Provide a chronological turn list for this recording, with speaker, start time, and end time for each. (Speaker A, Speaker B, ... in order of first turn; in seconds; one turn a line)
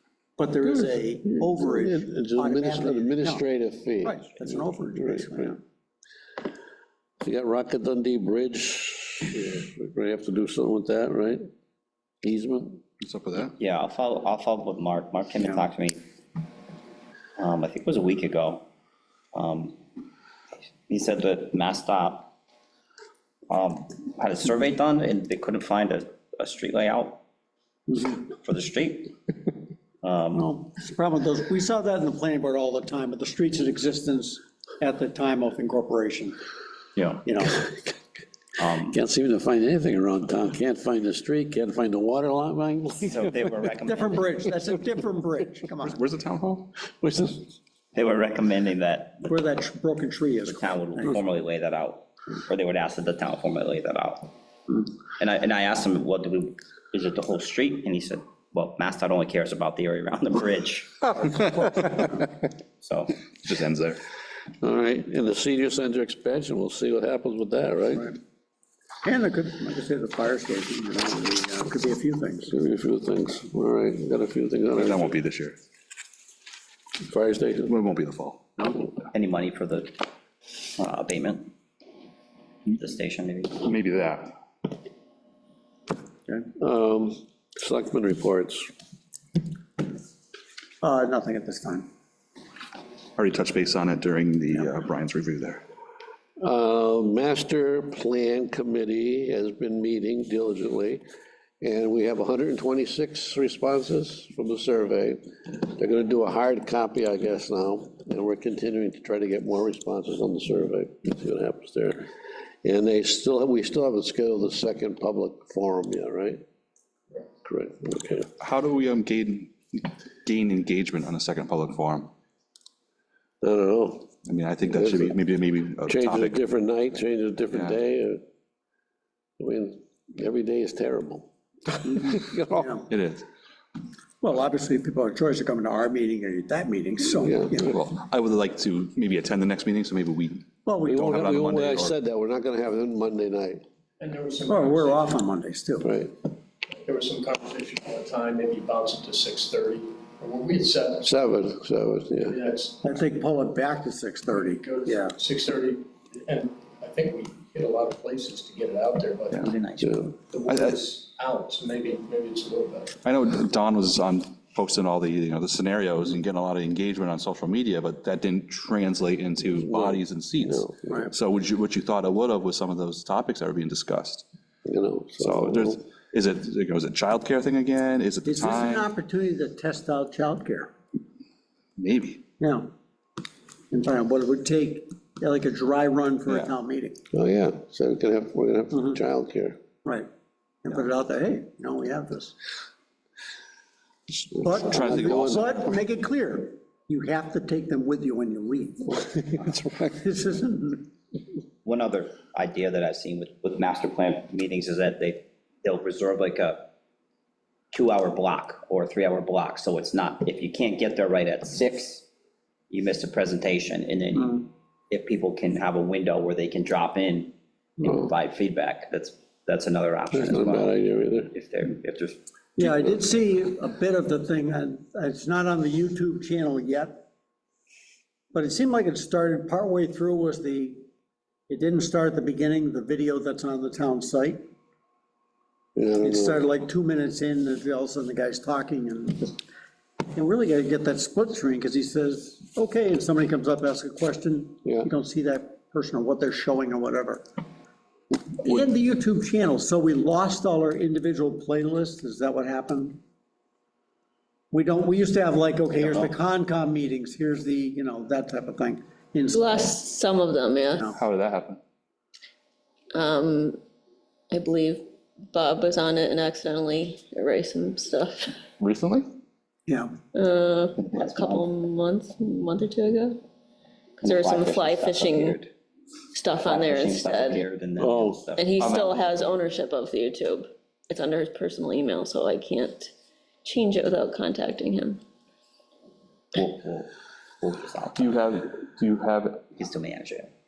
Speaker A: 0.4-3.4
Speaker B: 0.8-5.5
Speaker A: 4.0-5.6
Speaker B: 7.2-11.4
Speaker B: 12.2-12.8
Speaker C: 13.0-13.5
Speaker D: 13.6-16.0
Speaker D: 17.4-18.6
Speaker D: 19.3-19.8
Speaker D: 20.9-22.3
Speaker D: 23.5-27.2
Speaker D: 28.4-29.1
Speaker D: 30.0-30.4
Speaker A: 30.3-36.4
Speaker D: 37.0-37.2
Speaker A: 37.2-37.6
Speaker D: 38.6-39.0
Speaker B: 38.8-43.5
Speaker D: 43.0-44.5
Speaker A: 43.9-46.0
Speaker C: 45.8-46.7
Speaker B: 47.0-47.5
Speaker D: 47.9-49.4
Speaker A: 49.3-51.1
Speaker D: 50.5-54.3
Speaker D: 55.2-61.1
Speaker A: 61.3-61.9
Speaker D: 62.8-63.2
Speaker C: 63.4-64.0
Speaker B: 64.6-68.2
Speaker A: 69.0-72.6
Speaker B: 72.5-75.2
Speaker C: 74.7-75.6
Speaker B: 77.0-77.7
Speaker C: 77.6-78.5
Speaker D: 79.1-80.0
Speaker D: 80.8-81.5
Speaker D: 82.8-83.6
Speaker C: 83.6-84.3
Speaker B: 86.6-88.7
Speaker A: 90.8-91.8
Speaker C: 93.2-95.6
Speaker B: 96.4-101.0
Speaker B: 101.6-112.1
Speaker B: 112.6-116.4
Speaker B: 117.4-118.3
Speaker C: 118.4-122.1
Speaker B: 123.4-124.1
Speaker C: 124.2-126.4
Speaker B: 124.7-125.2
Speaker B: 125.8-128.2
Speaker C: 127.5-127.8
Speaker B: 129.4-132.7
Speaker A: 132.5-132.9
Speaker C: 132.9-133.2
Speaker A: 134.2-137.7
Speaker B: 137.2-137.6
Speaker C: 137.6-141.9
Speaker A: 140.7-141.2
Speaker B: 140.8-143.6
Speaker E: 144.0-145.3
Speaker A: 144.4-145.9
Speaker B: 145.8-146.1
Speaker E: 146.7-151.2
Speaker B: 151.0-152.4
Speaker E: 152.3-152.9
Speaker A: 152.8-155.2
Speaker E: 154.3-159.4
Speaker D: 159.4-160.1
Speaker B: 159.8-160.1
Speaker E: 160.2-162.9
Speaker C: 160.4-160.8
Speaker C: 163.0-174.2
Speaker B: 169.5-171.1
Speaker B: 174.6-175.8
Speaker C: 175.2-178.9
Speaker A: 178.2-180.7
Speaker C: 181.8-182.2
Speaker A: 182.4-182.7
Speaker A: 183.7-186.9
Speaker C: 186.3-186.5
Speaker B: 187.1-189.6
Speaker A: 190.6-192.3
Speaker B: 194.3-195.4
Speaker A: 194.4-200.8
Speaker C: 194.6-195.5
Speaker B: 199.2-200.0
Speaker D: 201.6-206.7
Speaker D: 207.7-212.1
Speaker D: 212.7-220.8
Speaker A: 214.2-214.4
Speaker B: 220.1-221.3
Speaker D: 221.3-222.2
Speaker A: 222.6-227.0
Speaker A: 228.3-230.8
Speaker A: 231.5-234.4
Speaker B: 235.8-236.4
Speaker A: 236.0-239.3
Speaker A: 240.1-247.2
Speaker A: 248.4-253.0
Speaker A: 254.5-259.8
Speaker D: 255.8-256.1
Speaker F: 259.3-260.8
Speaker A: 260.7-261.0
Speaker C: 260.9-261.6
Speaker F: 262.9-263.6
Speaker F: 264.3-268.3
Speaker C: 268.6-269.1
Speaker F: 270.1-273.2
Speaker D: 270.8-271.5
Speaker F: 274.0-275.4
Speaker D: 274.0-275.5
Speaker F: 276.1-277.4
Speaker D: 276.4-278.5
Speaker B: 277.8-278.2
Speaker F: 278.4-282.9
Speaker C: 278.6-279.1
Speaker F: 283.4-285.0
Speaker C: 286.3-286.9
Speaker D: 287.4-288.2
Speaker C: 287.9-289.5
Speaker D: 289.6-290.3